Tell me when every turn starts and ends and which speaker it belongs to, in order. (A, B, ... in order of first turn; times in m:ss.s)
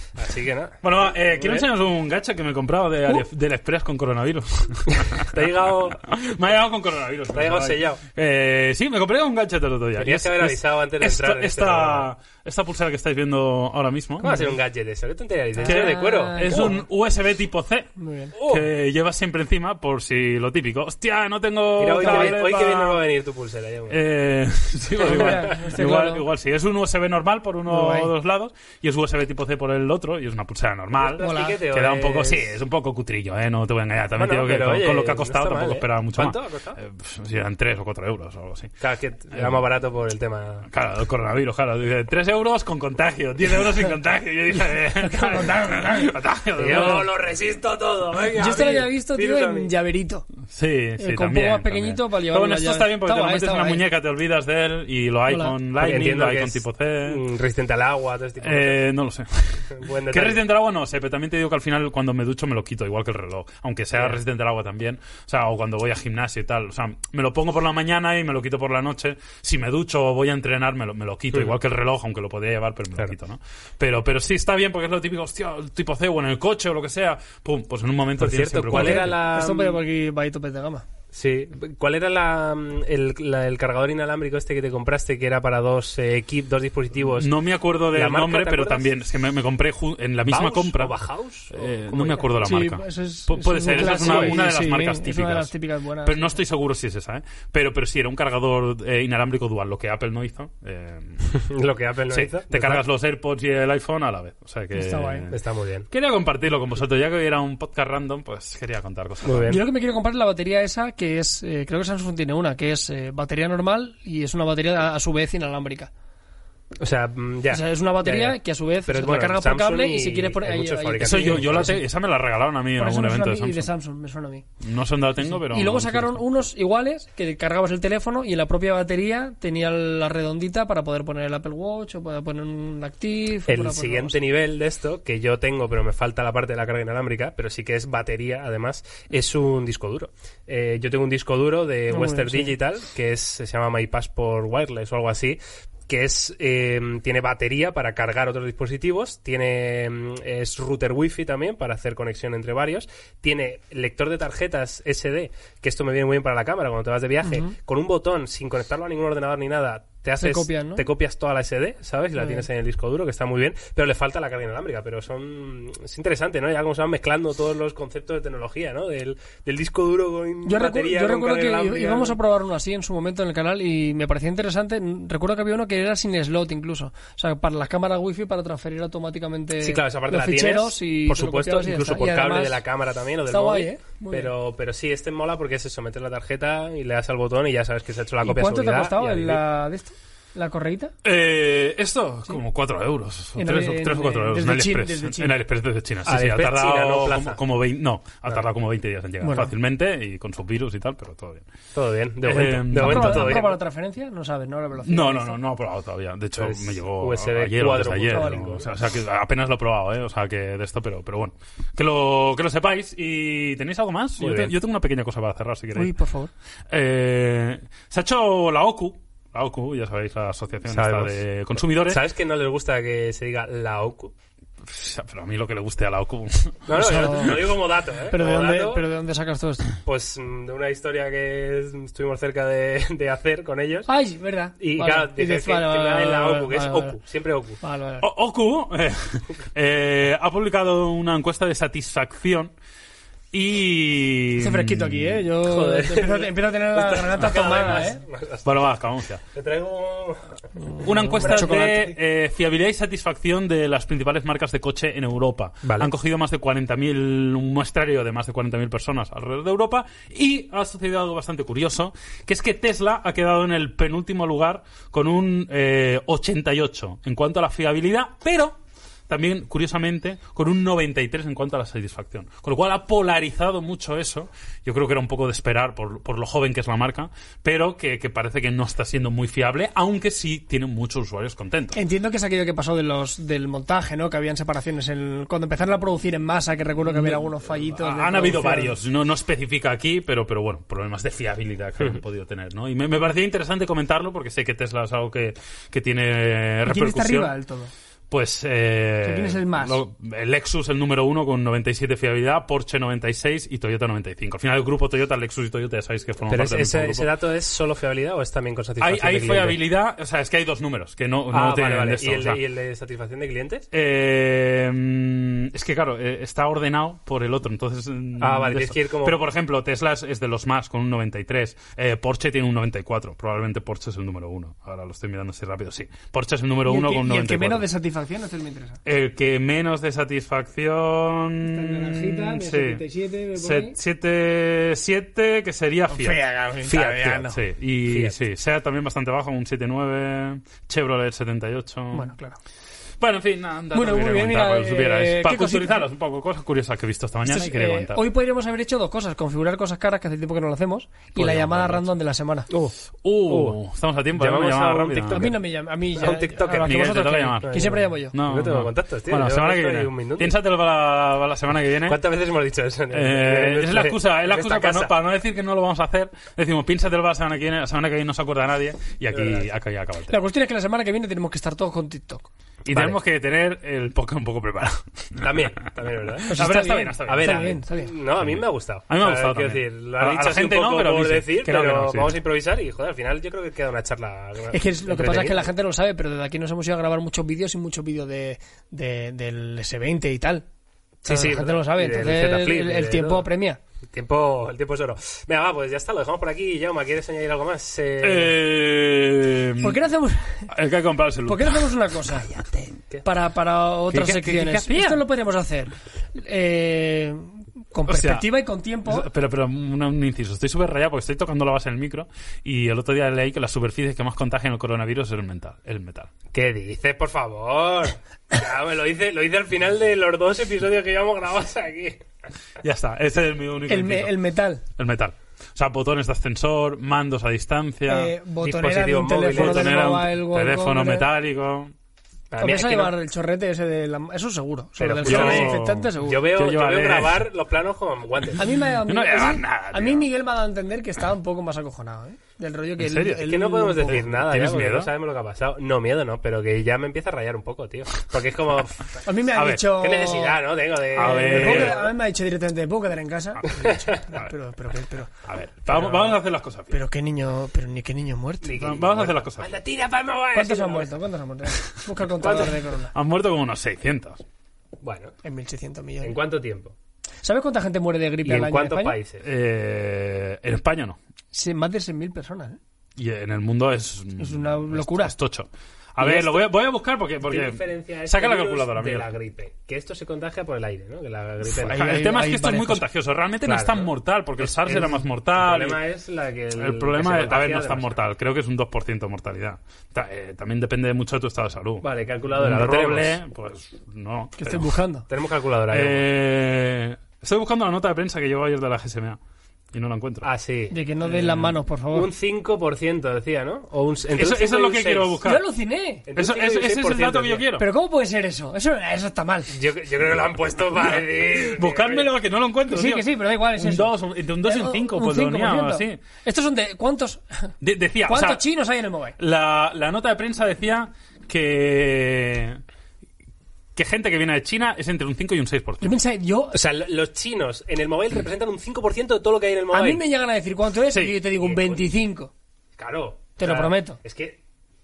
0:00.1-0:01.7 A
0:00.8-0:14.4 B
0:04.9-0:06.0 A
0:07.3-0:08.0 A
0:10.0-0:12.1 A
0:14.2-0:14.5 C
0:14.2-0:16.8 A
0:15.6-0:16.8 C
0:15.6-0:23.0 B
0:18.0-0:18.3 C
0:18.4-0:18.7 A
0:21.8-0:24.0 A
0:22.0-0:22.4 C
0:23.9-0:38.7 B
0:25.0-0:26.2 C
0:25.0-0:25.6 A
0:27.7-0:28.1 C
0:31.0-0:32.6 A
0:31.2-0:31.6 C
0:34.2-0:36.8 A
0:38.8-0:40.7 A
0:39.3-0:39.6 B
0:40.7-0:47.1 B
0:45.0-0:46.1 C
0:46.6-0:49.7 A
0:48.4-0:50.3 C
0:50.5-0:57.2 B
0:51.0-0:53.8 C
0:55.3-0:55.5 C
0:55.8-0:58.8 A
0:58.4-1:19.2 B
0:59.7-1:00.4 A
1:18.2-1:19.8 A
1:18.7-1:20.8 C
1:21.1-1:27.3 A
1:27.1-1:31.0 B
1:27.9-1:28.9 A
1:30.3-1:32.4 A
1:31.5-1:35.5 B
1:32.4-1:36.4 C
1:33.7-1:34.4 A
1:36.0-1:41.3 B
1:41.3-1:42.8 A
1:42.1-1:45.4 B
1:44.7-1:45.3 C
1:45.3-1:45.9 A
1:45.9-1:49.6 B
1:49.2-1:49.6 A
1:49.5-1:55.9 C
1:56.8-2:01.8 A
1:57.5-2:01.8 C
2:01.0-2:03.7 B
2:02.8-2:04.4 C
2:04.6-2:06.2 B
2:05.3-2:14.2 C
2:13.5-2:52.2 A
2:21.9-2:22.6 C
2:37.2-2:37.5 C
2:40.2-2:40.8 C
2:42.2-2:42.4 C
2:50.4-3:02.6 C
2:59.6-3:09.4 A
3:03.3-3:04.3 C
3:08.2-3:10.9 C
3:11.0-3:21.5 B
3:13.4-3:15.4 C
3:16.1-3:17.4 A
3:19.2-3:19.5 C
3:21.8-3:23.6 A
3:22.2-3:23.5 B
3:22.7-3:25.4 C
3:24.9-3:35.9 B
3:26.4-3:28.6 A
3:28.1-3:28.6 C
3:34.2-3:34.5 A
3:35.8-3:36.3 C
3:36.7-3:42.0 B
3:40.7-3:41.2 A
3:41.7-3:44.1 A
3:44.6-3:47.5 B
3:46.7-3:48.9 A
3:46.8-3:47.5 C
3:48.1-3:49.7 C
3:49.8-3:53.9 A
3:53.9-3:57.0 C
3:54.6-3:57.6 A
3:57.6-3:58.1 C
3:58.0-4:02.5 B
4:03.3-4:05.2 B
4:04.4-4:08.0 C
4:05.4-4:08.5 A
4:08.4-4:09.2 B
4:09.3-4:10.3 A
4:10.6-4:11.9 C
4:10.8-4:28.6 B
4:11.2-4:11.8 A
4:15.6-4:15.9 A
4:29.1-4:41.8 B
4:41.7-4:48.8 C
4:46.9-4:57.3 B
4:56.7-4:57.7 C
4:58.1-5:07.1 B
4:59.0-4:59.8 C
5:06.3-5:09.6 A
5:08.8-5:12.4 B
5:11.3-5:13.7 A
5:13.7-5:27.7 B
5:18.2-5:19.2 A
5:26.6-5:28.8 C
5:28.8-5:32.8 B
5:31.4-5:33.8 C
5:33.4-5:36.2 B
5:35.9-5:37.4 C
5:36.7-5:37.3 A
5:37.0-5:42.1 B
5:37.8-5:38.2 A
5:41.9-5:42.4 C
5:43.0-5:48.0 B
5:43.7-5:45.9 C
5:47.3-5:52.5 C
5:51.2-5:51.8 B
5:53.0-5:55.4 B
5:53.3-5:53.6 A
5:54.2-5:56.9 A
5:55.1-5:58.2 C
5:56.6-6:02.0 B
5:57.4-6:00.4 A
6:01.9-6:04.9 A
6:02.9-6:10.2 B
6:09.1-6:09.5 A
6:10.1-6:12.3 C
6:12.7-6:15.5 B
6:12.7-6:13.0 A
6:15.2-6:16.4 A
6:16.3-6:17.9 C
6:16.3-6:17.6 B
6:17.1-6:25.5 A
6:18.2-6:22.2 B
6:24.5-6:30.5 C
6:31.0-6:33.3 A
6:31.1-6:33.6 C
6:33.9-6:38.4 A
6:38.0-6:39.8 B
6:39.6-6:40.5 C
6:40.5-6:41.8 B
6:41.3-6:42.4 C
6:43.0-6:49.1 C
6:43.9-6:45.0 B
6:47.9-6:48.3 B
6:48.8-6:56.1 B
6:56.3-7:02.0 A
7:02.6-7:04.1 B
7:03.7-7:04.6 C
7:04.8-7:08.1 B
7:07.9-7:11.1 C
7:08.4-7:09.9 A
7:09.3-7:11.7 B
7:12.3-7:13.0 A
7:12.4-7:16.3 C
7:14.8-7:18.4 A
7:15.0-7:17.3 B
7:18.4-7:24.1 C
7:18.9-7:20.1 B
7:22.8-7:24.9 B
7:23.2-7:29.0 A
7:29.0-7:35.1 C
7:29.3-7:29.7 B
7:29.6-7:31.9 A
7:30.9-7:31.9 B
7:33.6-7:34.1 A
7:35.3-7:36.8 B
7:35.7-7:36.2 A
7:36.7-7:38.6 C
7:38.4-7:40.9 A
7:38.6-7:39.5 B
7:40.3-7:42.9 C
7:42.2-7:42.6 A
7:42.9-7:44.2 B
7:44.8-7:45.2 A
7:45.2-7:46.2 C
7:46.0-7:46.7 A
7:47.2-7:49.0 C
7:48.2-7:49.2 A
7:49.2-7:51.0 B
7:51.3-7:52.6 C
7:53.0-7:59.1 B
7:54.2-7:55.2 C
7:56.0-7:56.3 A
7:57.3-8:01.9 A
8:01.5-8:02.8 C
8:01.7-8:05.8 B
8:03.4-8:08.0 A
8:06.6-8:11.8 B
8:11.8-8:13.2 A
8:12.4-8:14.7 B
8:14.4-8:15.1 C
8:15.1-8:16.1 A
8:15.7-8:19.2 B
8:19.7-8:20.3 B
8:20.2-8:20.8 A
8:20.7-8:22.1 C
8:21.1-8:21.4 B
8:21.9-8:25.2 A
8:24.2-8:25.4 B
8:25.2-8:26.0 C
8:26.1-8:27.5 A
8:26.1-8:27.6 B
8:27.6-8:29.5 C
8:29.5-8:32.1 A
8:31.3-8:36.0 B
8:32.7-8:37.5 C
8:37.6-8:38.4 B
8:38.1-8:39.2 C
8:39.2-8:42.6 B
8:43.8-8:46.0 B
8:45.8-8:46.6 C
8:46.5-8:50.0 A
8:49.7-8:52.3 C
8:51.4-8:51.9 A
8:52.8-8:54.4 A
8:53.4-8:54.0 C